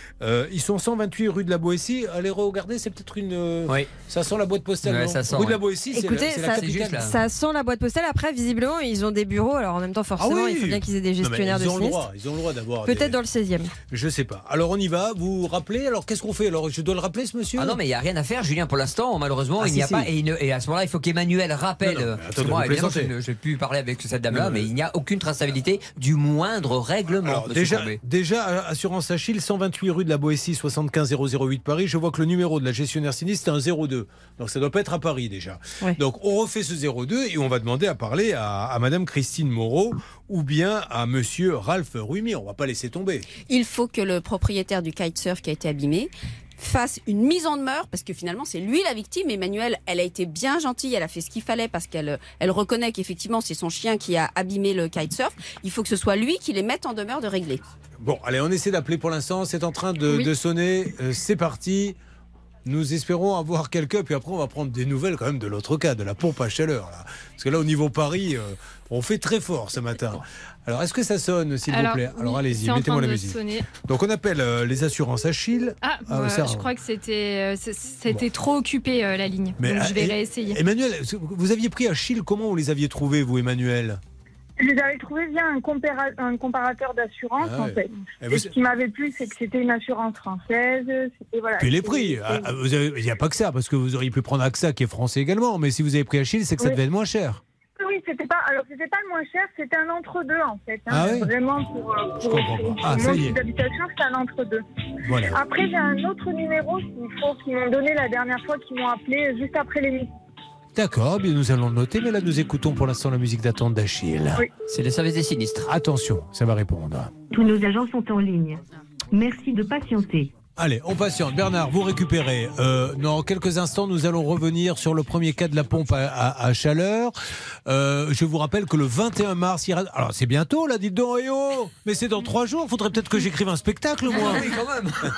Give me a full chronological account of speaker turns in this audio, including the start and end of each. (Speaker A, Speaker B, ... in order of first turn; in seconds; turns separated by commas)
Speaker A: 0.2-7.1, Speaker B: 4.8-5.6, Speaker C: 5.9-12.0, Speaker B: 6.5-7.2, Speaker A: 10.2-13.2, Speaker C: 12.9-13.7, Speaker A: 13.9-17.8, Speaker B: 17.6-28.0, Speaker A: 19.6-20.1, Speaker A: 21.8-23.1, Speaker A: 24.3-24.7, Speaker A: 27.2-43.3, Speaker D: 43.5-57.6, Speaker A: 58.0-62.0, Speaker A: 62.7-76.7, Speaker E: 71.7-73.7, Speaker E: 75.8-80.6, Speaker A: 79.6-84.0, Speaker F: 84.6-92.4, Speaker A: 87.4-88.5, Speaker A: 91.6-97.4, Speaker F: 97.8-104.6, Speaker A: 100.9-101.3, Speaker A: 102.2-103.4, Speaker A: 105.0-105.4, Speaker F: 105.3-110.1, Speaker A: 110.8-114.5, Speaker B: 114.7-115.7, Speaker A: 115.7-117.1, Speaker G: 117.3-120.3, Speaker A: 120.6-127.2, Speaker A: 127.7-134.5, Speaker B: 134.1-135.0